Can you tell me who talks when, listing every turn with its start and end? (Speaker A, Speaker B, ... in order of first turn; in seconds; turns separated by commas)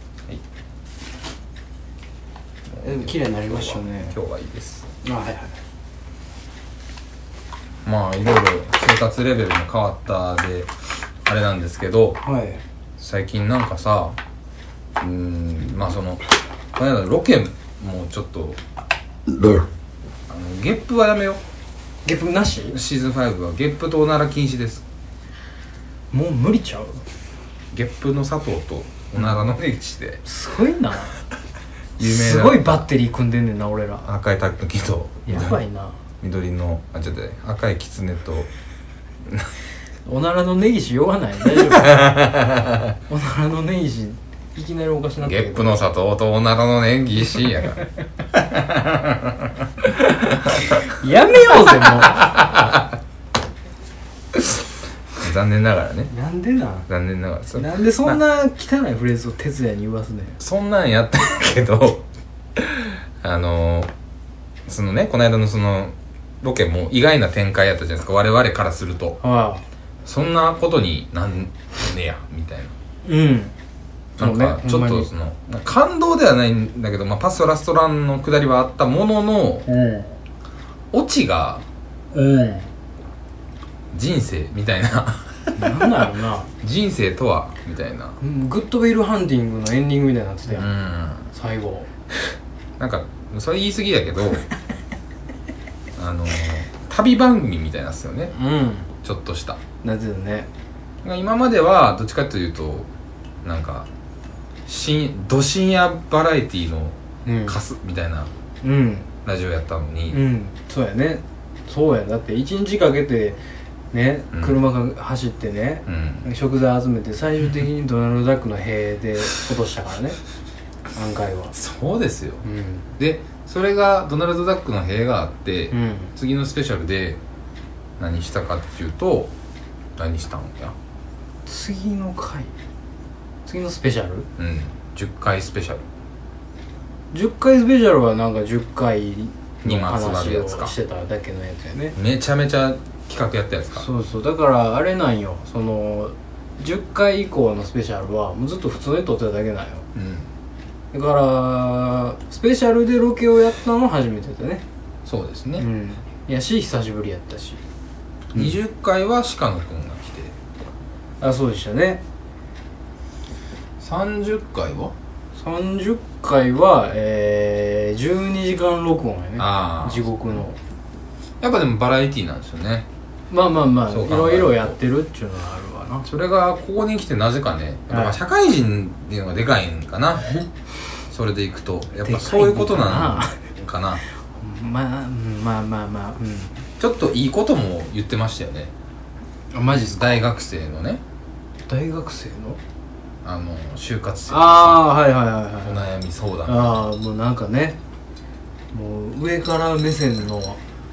Speaker A: 2.7-4.9, Speaker B: 2.8-4.2, Speaker B: 5.0-5.6, Speaker A: 7.8-10.7, Speaker A: 11.2-12.2, Speaker B: 12.2-12.6, Speaker A: 13.0-14.2, Speaker A: 15.0-18.6, Speaker A: 20.3-21.4, Speaker B: 22.0-22.8, Speaker A: 22.7-24.8, Speaker B: 26.1-27.0, Speaker A: 27.7-30.2, Speaker B: 30.2-31.1, Speaker A: 32.0-32.9, Speaker B: 32.0-34.1, Speaker A: 34.0-35.6, Speaker B: 35.3-36.0, Speaker A: 36.2-38.5, Speaker B: 40.0-42.2, Speaker A: 41.5-42.9, Speaker B: 43.1-45.8, Speaker A: 45.2-50.8, Speaker B: 50.7-52.4, Speaker A: 51.9-52.9, Speaker A: 55.2-56.1, Speaker B: 56.1-56.9, Speaker A: 56.9-58.2, Speaker B: 57.5-60.4, Speaker A: 60.4-62.0, Speaker A: 62.5-63.9, Speaker A: 64.7-69.2, Speaker B: 69.2-69.6, Speaker A: 70.0-72.7, Speaker B: 73.0-73.5, Speaker A: 74.2-79.7, Speaker B: 74.2-75.1, Speaker B: 79.7-80.1, Speaker A: 80.9-81.6, Speaker B: 82.1-82.7, Speaker A: 83.9-85.8, Speaker B: 85.5-86.5, Speaker A: 86.6-88.2, Speaker B: 88.2-90.7, Speaker A: 90.5-91.3, Speaker B: 91.3-91.9, Speaker A: 92.8-94.5, Speaker A: 96.0-98.3, Speaker B: 98.3-98.9, Speaker A: 99.0-99.6, Speaker B: 99.8-100.5, Speaker A: 101.0-102.9, Speaker A: 103.4-103.9, Speaker A: 104.7-107.0, Speaker B: 107.2-107.6, Speaker A: 107.5-108.3, Speaker B: 108.6-109.1, Speaker A: 109.2-110.2, Speaker B: 110.1-113.4, Speaker B: 113.9-120.2, Speaker A: 114.3-114.6, Speaker A: 115.9-116.2, Speaker B: 120.9-121.5, Speaker A: 121.5-122.4, Speaker B: 122.4-122.9, Speaker A: 123.0-127.2, Speaker B: 125.7-126.1, Speaker A: 128.0-129.3, Speaker A: 130.0-130.7, Speaker B: 131.4-132.5, Speaker B: 133.4-134.3, Speaker A: 134.4-135.8, Speaker B: 137.1-141.9, Speaker A: 139.6-140.7, Speaker A: 141.9-143.9, Speaker B: 143.7-149.8, Speaker A: 149.9-150.3, Speaker B: 150.9-154.6, Speaker A: 155.0-155.7, Speaker B: 155.6-157.6, Speaker A: 158.3-160.3, Speaker B: 161.2-162.0, Speaker A: 163.8-164.9, Speaker B: 165.3-170.6, Speaker A: 169.4-170.1, Speaker A: 171.4-172.9, Speaker B: 173.3-176.1, Speaker A: 173.9-174.8, Speaker A: 176.0-180.3, Speaker B: 177.9-178.2, Speaker A: 181.1-184.0, Speaker B: 182.0-183.4, Speaker B: 184.3-186.6, Speaker A: 186.8-188.7, Speaker B: 189.5-190.2, Speaker A: 189.7-191.0, Speaker B: 191.7-192.6, Speaker A: 193.2-194.9, Speaker B: 194.3-195.9, Speaker A: 195.6-196.8, Speaker B: 196.4-197.8, Speaker B: 198.7-200.6